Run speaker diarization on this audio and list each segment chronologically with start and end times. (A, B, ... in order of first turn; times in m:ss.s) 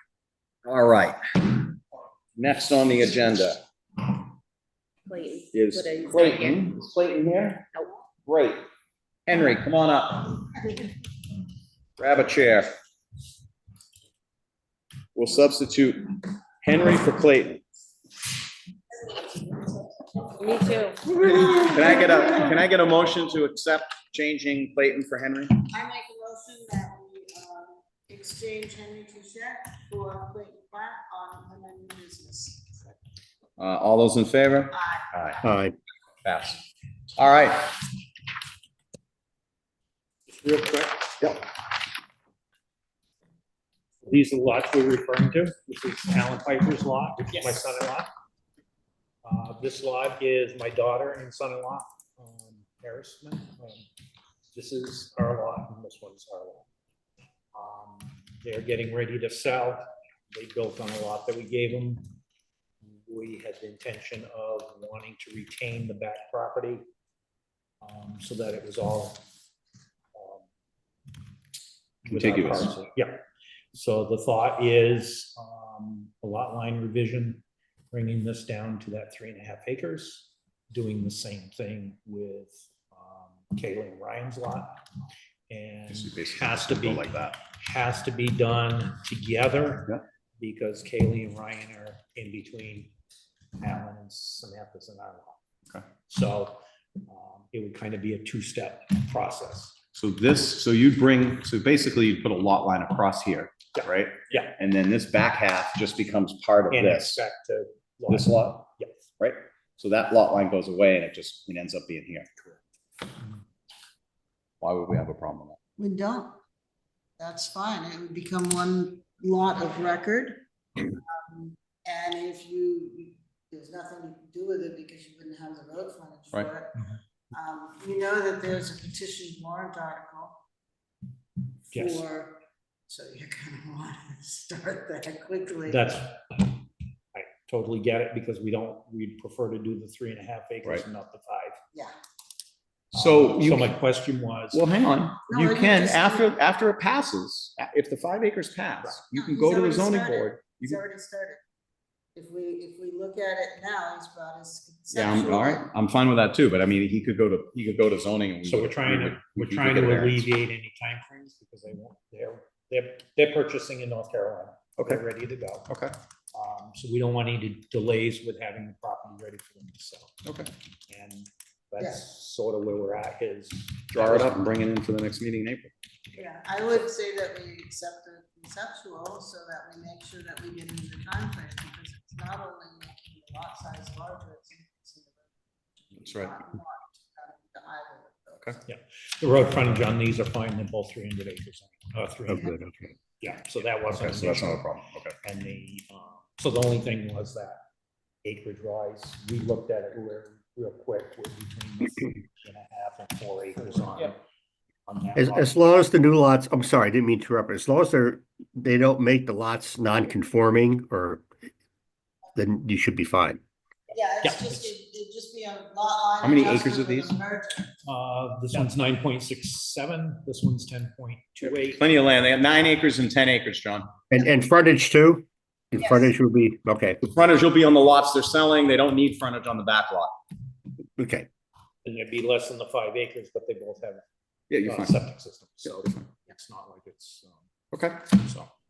0:00.6-0:01.6 A
0:02.4-0:03.6 A
0:05.1-0:06.6 B
0:05.5-0:07.7 A
0:08.3-0:08.7 A
0:09.3-0:10.5 A
0:12.0-0:12.7 A
0:15.2-0:17.6 A
0:18.9-0:22.7 C
0:20.4-0:21.1 B
0:21.7-0:25.6 A
0:25.7-0:33.0 C
0:33.6-0:35.4 A
0:34.7-0:35.1 C
0:35.4-0:35.8 D
0:36.2-0:36.6 A
0:37.2-0:37.8 A
0:40.3-0:41.2 E
0:44.0-0:48.1 E
0:49.2-0:53.9 E
0:54.5-0:56.7 E
0:57.5-1:02.0 E
1:02.8-1:06.8 E
1:07.8-1:09.2 E
1:10.2-1:10.4 E
1:12.0-1:12.8 A
1:12.0-1:24.8 E
1:25.5-1:32.9 E
1:25.9-1:27.4 A
1:33.6-1:35.4 E
1:36.1-1:39.8 E
1:39.9-1:47.2 A
1:43.8-1:44.6 E
1:46.7-1:49.0 E
1:48.1-1:48.7 A
1:49.2-1:52.3 A
1:54.6-1:55.6 A
1:55.8-1:56.4 C
1:57.2-2:06.8 C
2:07.3-2:10.4 C
2:11.7-2:15.8 C
2:11.7-2:12.0 E
2:15.7-2:16.6 E
2:17.1-2:21.6 E
2:22.9-2:23.7 A
2:22.9-2:24.6 E
2:24.5-2:30.8 A
2:25.3-2:26.4 C
2:29.1-2:31.4 C
2:32.2-2:35.7 C
2:34.9-2:40.3 A
2:38.4-2:45.7 E
2:46.3-2:50.1 E
2:50.2-2:50.5 A
2:50.9-2:54.5 E
2:54.0-2:55.7 A
2:56.2-3:08.6 C
3:06.0-3:06.4 A
3:08.7-3:14.7 E
3:12.3-3:13.0 D
3:13.9-3:15.2 A
3:15.2-3:17.6 E
3:18.2-3:24.2 E
3:24.9-3:25.9 E
3:25.2-3:31.3 D
3:32.4-3:33.4 D
3:33.9-3:37.7 C
3:34.2-3:34.7 E
3:36.2-3:37.1 A
3:37.8-3:41.8 E
3:41.4-3:43.9 A
3:44.1-3:47.0 D
3:45.8-3:46.1 C
3:47.0-3:50.1 A
3:51.0-3:51.3 D
3:51.8-3:54.0 E
3:54.5-3:55.0 A
3:54.6-3:57.4 E
3:55.7-3:56.1 A
3:57.7-3:58.1 A
3:58.1-3:58.5 E